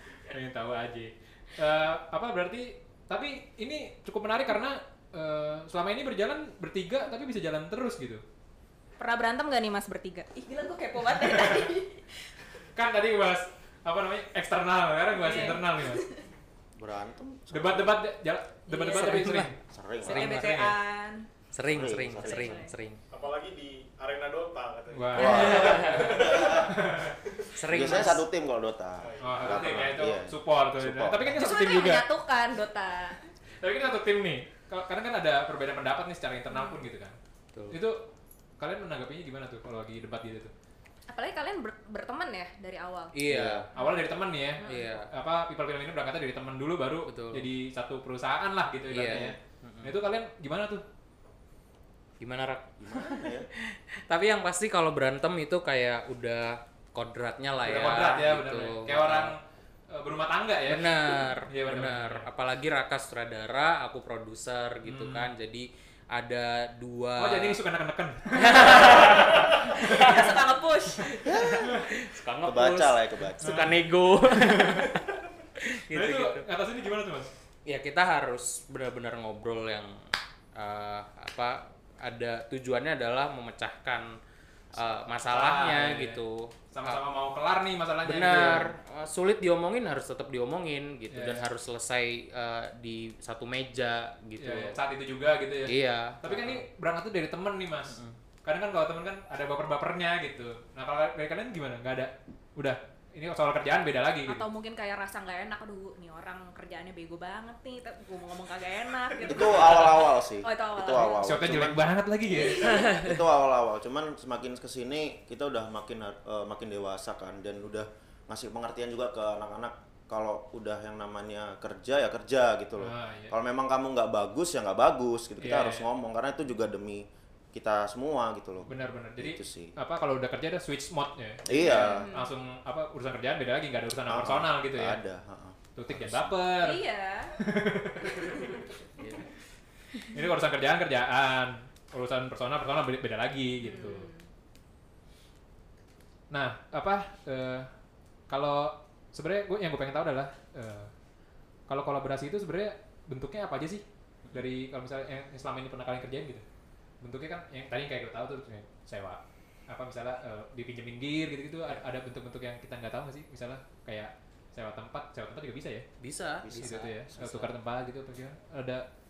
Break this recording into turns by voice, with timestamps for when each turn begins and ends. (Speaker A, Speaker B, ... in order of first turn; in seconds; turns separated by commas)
Speaker A: 0.3-8.2, Speaker B: 9.0-12.1, Speaker A: 11.2-11.6, Speaker A: 12.7-16.1, Speaker B: 15.1-16.2, Speaker C: 16.8-18.0, Speaker A: 17.5-19.6, Speaker B: 18.7-19.5, Speaker D: 18.9-19.5, Speaker C: 19.7-20.3, Speaker D: 20.0-20.6, Speaker B: 20.1-21.3, Speaker A: 20.1-20.8, Speaker D: 21.5-23.0, Speaker C: 21.6-22.6, Speaker B: 22.2-22.7, Speaker E: 23.1-26.8, Speaker A: 24.9-27.2, Speaker C: 25.1-26.2, Speaker D: 25.2-26.4, Speaker D: 27.6-28.2, Speaker C: 27.7-31.4, Speaker E: 29.0-29.7, Speaker A: 29.2-32.0, Speaker B: 31.3-33.3, Speaker A: 33.6-37.2, Speaker B: 36.5-36.8, Speaker A: 37.7-40.5, Speaker B: 41.1-43.1, Speaker D: 43.1-43.7, Speaker C: 43.3-43.7, Speaker B: 43.8-45.0, Speaker A: 43.8-50.8, Speaker D: 44.6-45.1, Speaker D: 47.1-47.5, Speaker D: 48.9-49.9, Speaker D: 52.2-59.3, Speaker C: 52.8-53.5, Speaker A: 57.6-59.4, Speaker A: 59.9-61.0, Speaker D: 60.7-67.6, Speaker A: 61.5-62.2, Speaker A: 64.8-65.3, Speaker A: 67.2-70.2, Speaker D: 68.3-70.4, Speaker B: 69.3-71.3, Speaker D: 71.1-76.5, Speaker C: 71.2-71.8, Speaker C: 72.4-73.7, Speaker A: 73.4-74.9, Speaker A: 75.9-77.3, Speaker D: 77.7-80.0, Speaker D: 80.5-84.1, Speaker D: 84.7-87.0, Speaker A: 85.2-86.2, Speaker A: 86.7-88.7, Speaker D: 88.0-94.8, Speaker A: 91.1-91.4, Speaker A: 94.4-104.5, Speaker D: 95.7-96.7, Speaker D: 97.9-98.2, Speaker B: 104.3-111.3, Speaker C: 109.2-129.8, Speaker A: 111.2-112.9, Speaker B: 112.3-113.1, Speaker A: 122.8-123.3, Speaker A: 125.4-125.8, Speaker A: 128.7-135.0, Speaker C: 131.5-132.1, Speaker B: 131.6-132.3, Speaker C: 134.1-136.3, Speaker A: 135.8-136.8, Speaker B: 136.6-137.3, Speaker A: 137.3-138.4, Speaker B: 138.2-138.6, Speaker D: 139.0-139.2, Speaker A: 140.1-144.1, Speaker B: 143.6-144.2, Speaker A: 146.3-147.7, Speaker A: 148.3-150.9, Speaker A: 151.7-156.4, Speaker A: 157.0-165.8, Speaker D: 166.0-167.5, Speaker C: 166.4-166.8, Speaker A: 166.5-168.8